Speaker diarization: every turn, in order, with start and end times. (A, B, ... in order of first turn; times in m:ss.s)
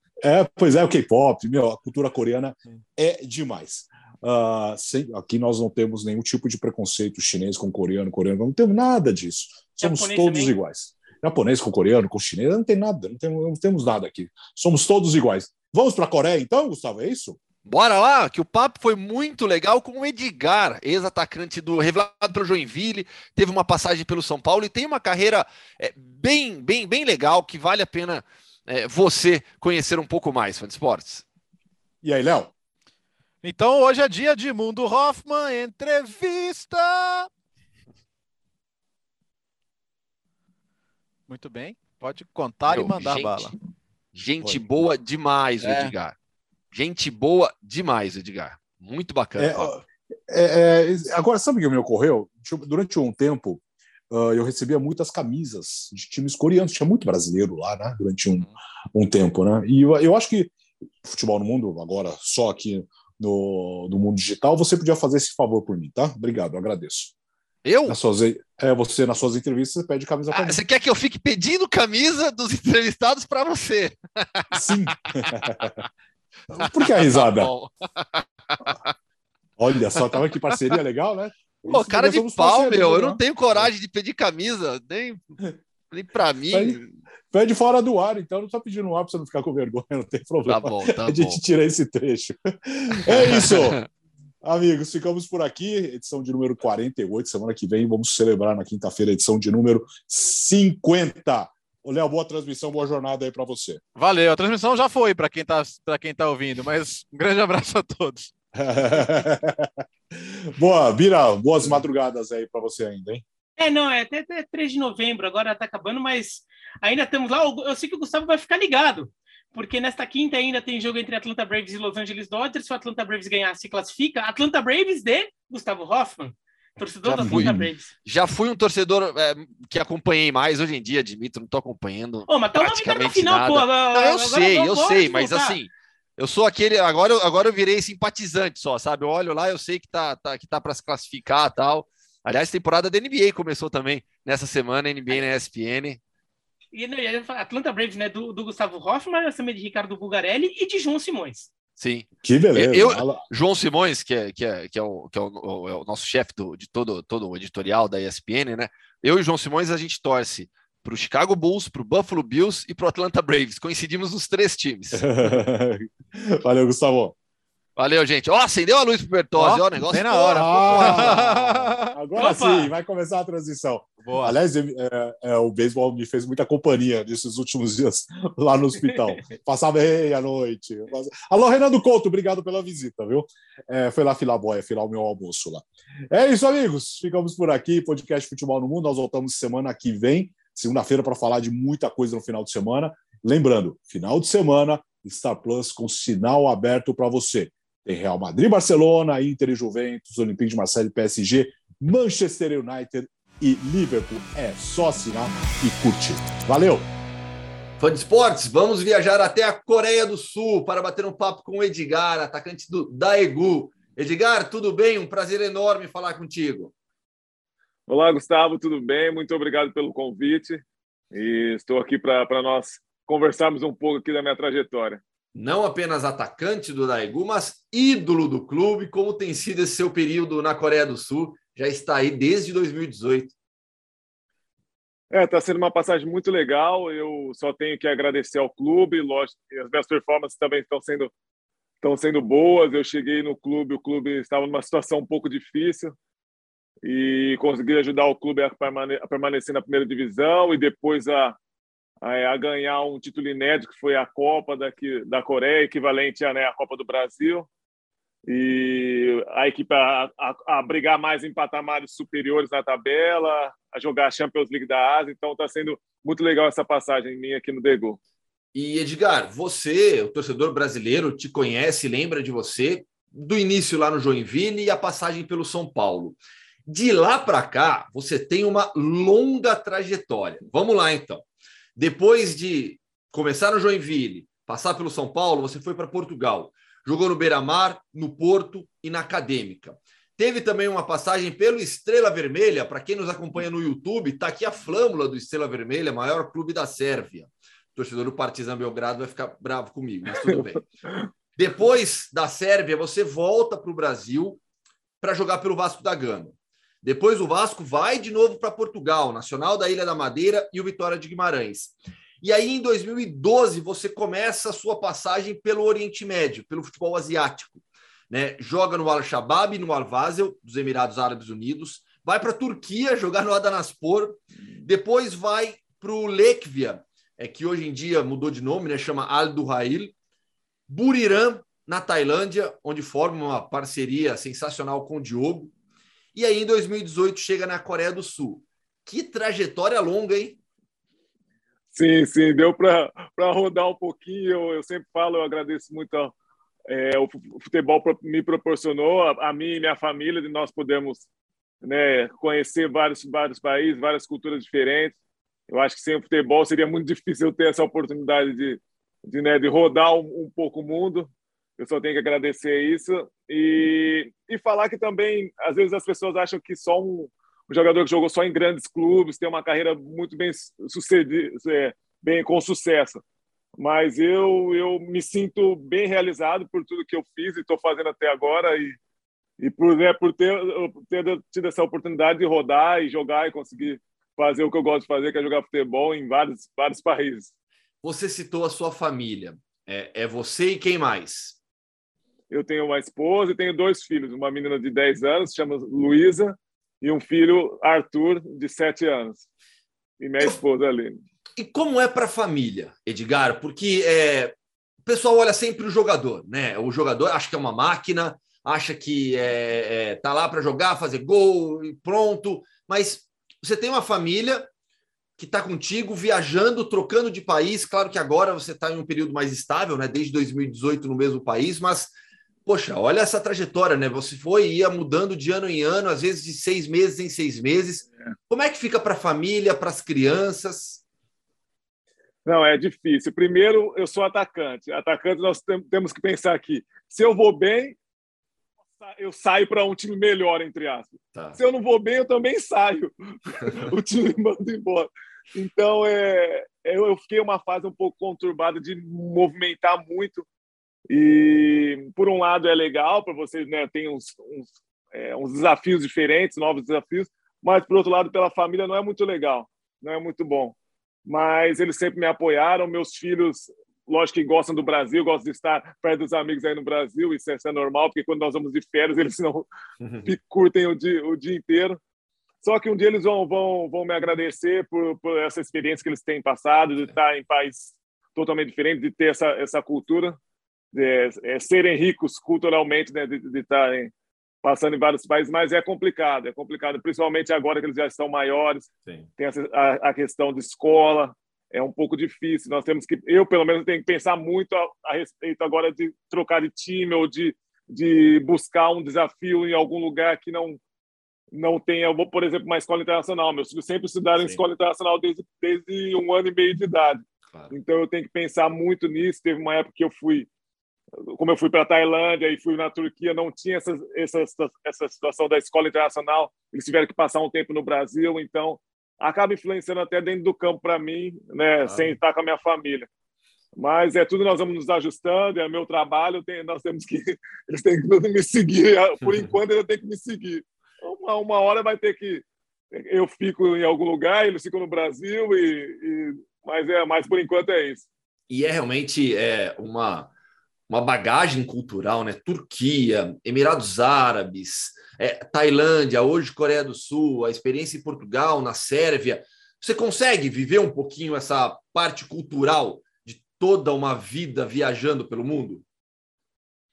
0:00.2-0:17.4 A
0:09.8-0:10.5 B
0:17.6-0:31.2 C
0:32.0-0:32.5 A
0:33.4-0:37.3 D
0:41.3-0:43.5 D
0:42.7-0:43.5 C
0:44.1-0:46.2 C
0:45.6-0:45.9 D
0:46.7-0:49.7 C
0:49.4-1:07.1 A
1:07.6-1:08.0 C
1:07.9-1:10.6 A
1:10.3-1:15.7 C
1:14.5-1:15.8 A
1:16.5-1:17.5 A
1:16.6-1:18.9 C
1:19.6-1:23.7 A
1:20.0-1:20.2 C
1:21.7-1:25.2 C
1:25.9-1:26.9 C
1:26.5-1:26.8 A
1:27.3-1:33.8 A
1:30.5-1:31.4 C
1:33.0-1:33.8 C
1:34.4-1:43.8 A
1:44.0-1:48.3 D
1:48.6-1:53.2 A
1:53.6-2:07.9 B
2:07.1-2:26.0 C
2:07.1-2:07.7 A
2:12.3-2:15.6 B
2:26.7-2:31.5 B
2:31.8-2:45.1 C
2:32.2-2:33.2 A
2:44.9-2:47.2 A
2:47.8-2:51.2 C
2:49.4-2:52.0 D
2:50.3-3:26.9 A
2:52.2-2:52.7 B
2:54.0-2:54.4 D
3:27.8-3:36.7 C
3:37.9-3:45.0 E
3:45.4-3:53.3 C
3:55.1-4:01.1 E
4:01.8-4:06.0 E
4:06.8-4:11.4 E
4:12.0-4:17.5 E
4:18.3-4:28.0 E
4:28.5-4:41.2 C
4:41.8-5:00.7 C
5:01.4-5:04.4 C
5:05.0-5:29.9 C
5:30.7-5:35.5 C
5:36.2-5:40.4 C
5:41.7-5:46.2 E
5:46.7-5:51.1 E
5:51.6-5:55.0 E
5:55.5-6:13.0 E
6:13.6-6:18.8 E
6:19.4-6:27.3 E
6:27.8-6:31.4 C
6:32.3-6:39.2 E
6:40.0-6:41.0 E
6:41.4-6:54.5 C
6:55.2-7:01.9 C
7:02.5-7:10.8 C
7:12.2-7:17.8 E
7:18.7-7:30.3 E
7:21.1-7:21.4 C
7:30.9-7:49.5 E
7:49.8-7:50.1 C
7:50.0-7:51.8 E
7:52.4-8:00.2 E
8:00.7-8:03.9 E
8:04.4-8:20.6 E
8:21.3-8:30.3 E
8:24.2-8:24.4 C
8:31.1-8:42.9 E
8:41.6-8:42.0 C
8:43.6-8:57.8 E
8:58.3-9:00.1 C
9:00.7-9:15.6 C